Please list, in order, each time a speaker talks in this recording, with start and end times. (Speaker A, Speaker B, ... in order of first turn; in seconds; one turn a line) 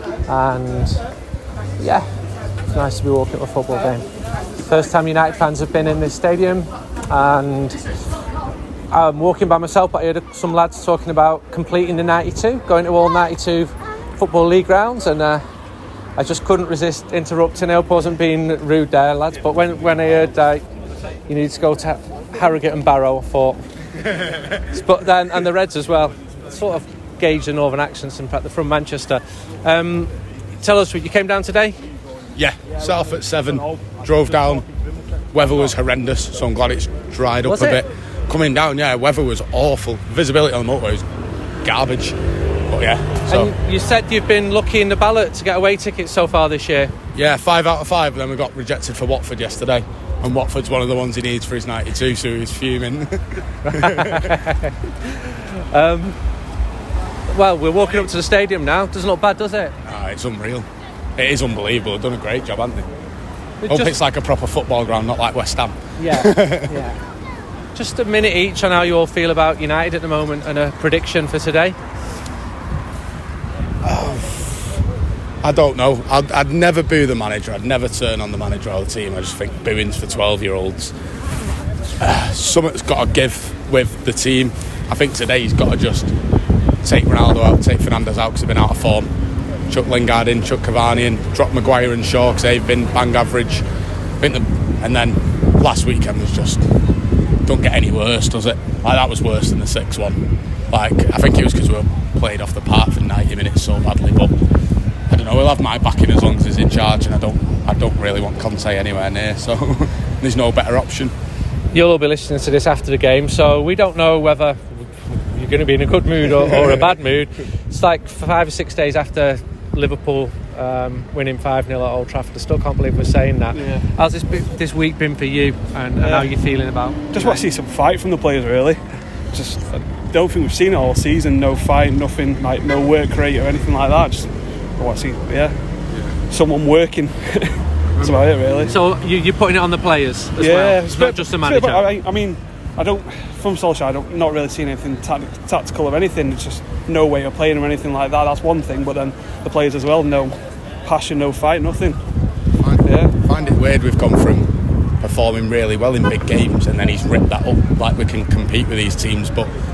Speaker A: 0.2-1.0
Speaker A: 1.8-7.8
Speaker A: 8.9-15.4
Speaker A: 16.2-20.6
Speaker A: 21.3-23.6
Speaker A: 24.7-31.8
Speaker B: 32.3-34.7
Speaker B: 35.3-41.0
Speaker A: 37.4-37.8
Speaker B: 41.6-42.2
Speaker B: 42.7-43.5
Speaker A: 43.3-46.9
Speaker B: 47.1-54.0
Speaker A: 53.6-54.7
Speaker A: 55.3-56.2
Speaker A: 57.3-59.7
Speaker B: 59.8-62.9
Speaker A: 63.6-63.9
Speaker B: 63.7-66.7
Speaker A: 66.0-67.0
Speaker A: 67.7-71.8
Speaker B: 73.8-74.8
Speaker B: 75.4-80.9
Speaker B: 82.0-86.1
Speaker B: 86.8-89.1
Speaker B: 89.7-93.6
Speaker B: 94.2-96.6
Speaker B: 97.4-104.3
Speaker B: 105.1-111.1
Speaker A: 111.7-127.4
Speaker C: 123.5-123.9
Speaker C: 126.0-126.3
Speaker C: 127.1-135.6
Speaker C: 136.3-138.7
Speaker A: 138.0-141.9
Speaker C: 140.4-152.0
Speaker B: 152.6-154.5
Speaker C: 152.8-153.1
Speaker B: 155.0-159.5